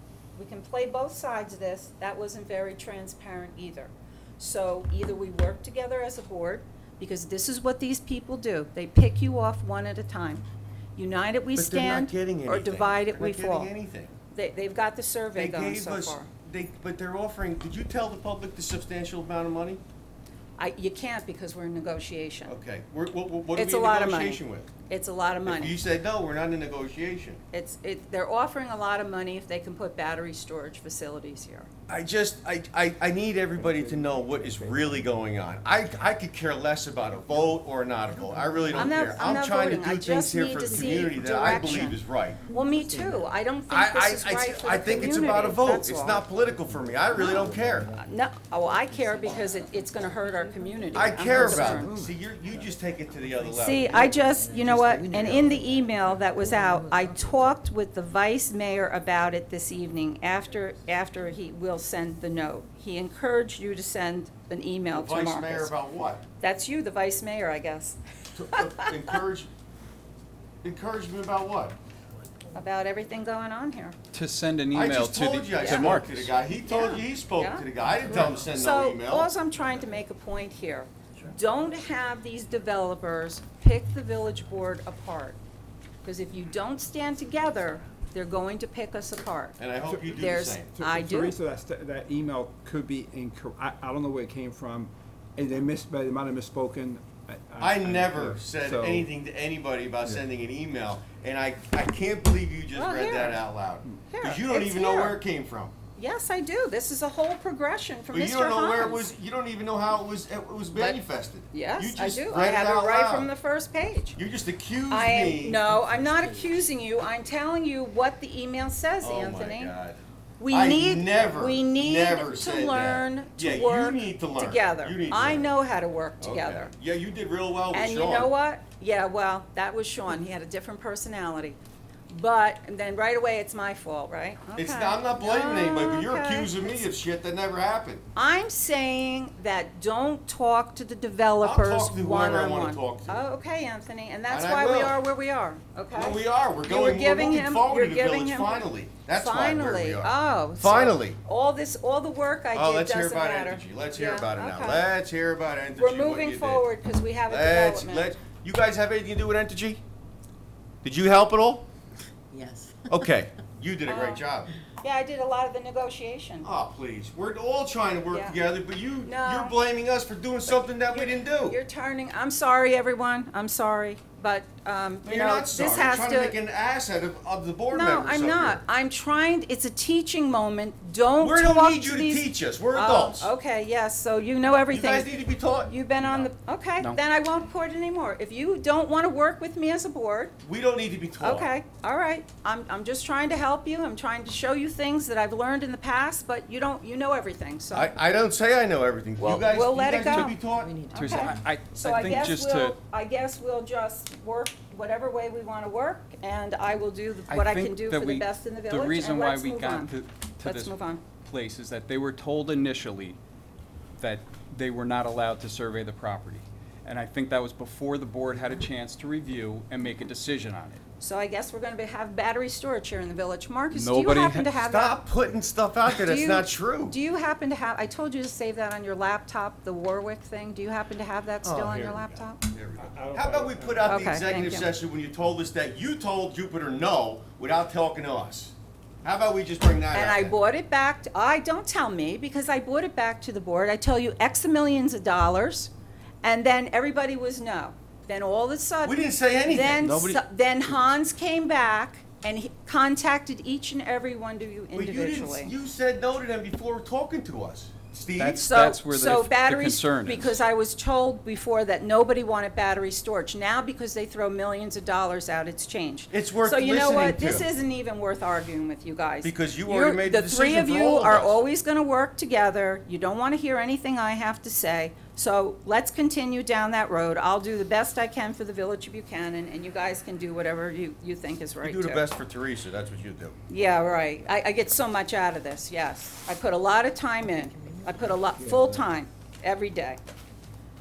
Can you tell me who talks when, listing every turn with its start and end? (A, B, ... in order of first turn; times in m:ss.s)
0:00.3-0:10.4 A
0:11.0-0:13.7 A
0:11.6-0:14.1 B
0:14.3-0:16.3 A
0:15.3-0:19.8 B
0:20.6-0:22.5 A
0:22.4-0:24.7 B
0:23.6-0:25.8 A
0:25.4-0:27.4 B
0:27.5-0:31.7 A
0:31.9-0:42.4 B
0:33.5-0:35.1 C
0:38.7-0:42.0 A
0:42.5-0:46.2 A
0:42.5-0:43.3 D
0:43.7-0:47.9 B
0:46.0-0:48.0 D
0:47.2-0:51.9 A
0:48.8-0:52.1 D
0:50.9-0:54.0 B
0:53.4-0:57.5 D
0:53.5-1:05.7 A
1:04.9-1:06.2 B
1:06.4-1:08.0 A
1:08.3-1:09.5 B
1:08.5-1:09.2 A
1:10.6-1:11.8 B
1:12.5-1:14.0 A
1:14.1-1:16.3 E
1:14.7-1:19.3 B
1:15.6-1:16.0 A
1:16.6-1:25.4 A
1:26.0-1:31.4 A
1:29.6-1:30.8 B
1:30.7-1:39.1 C
1:37.6-1:45.7 B
1:42.7-1:43.4 A
1:44.1-1:45.2 A
1:46.0-1:49.1 A
1:48.1-1:53.3 B
1:50.7-1:51.0 A
1:51.5-1:54.2 A
1:54.1-1:55.6 B
1:54.9-1:59.7 A
1:55.7-1:56.5 D
1:59.0-2:05.5 B
2:00.4-2:06.7 A
2:06.2-2:08.3 B
2:07.7-2:11.6 A
2:12.1-2:16.8 A
2:14.6-2:18.0 B
2:18.1-2:34.9 A
2:21.4-2:23.2 B
2:24.3-2:25.0 B
2:25.9-2:31.2 B
2:32.5-2:36.6 B
2:35.8-2:38.1 A
2:37.3-2:39.8 B
2:40.8-2:41.6 B
2:42.3-2:42.8 D
2:42.9-2:44.5 B
2:43.8-2:44.2 A
2:44.8-2:46.5 A
2:46.4-2:51.6 B
2:48.1-2:48.4 A
2:49.0-2:49.6 A
2:50.5-2:56.3 A
2:55.0-2:58.6 B
2:57.7-3:10.3 A
3:01.2-3:03.3 B
3:04.7-3:06.3 B
3:10.4-3:11.5 B
3:11.2-3:17.9 A
3:17.7-3:20.8 B
3:19.2-3:20.3 A
3:20.0-3:20.3 E
3:20.6-3:21.4 D
3:20.9-3:22.8 E
3:20.9-3:29.9 A
3:27.3-3:33.2 E
3:30.4-3:31.0 A
3:34.0-3:40.8 E
3:41.0-3:45.0 A
3:43.7-3:44.5 E
3:44.6-3:47.0 B
3:45.8-3:52.4 A
3:51.4-4:00.3 B
3:52.8-3:54.1 C
3:53.8-3:54.7 A
3:59.9-4:05.7 A
4:06.2-4:15.6 A
4:08.8-4:10.2 B
4:14.7-4:18.5 B
4:18.2-4:20.4 E
4:18.4-4:42.0 A
4:26.1-4:27.5 B
4:29.2-4:31.4 B
4:41.6-4:43.4 B
4:43.5-4:50.0 A
4:48.4-4:48.8 C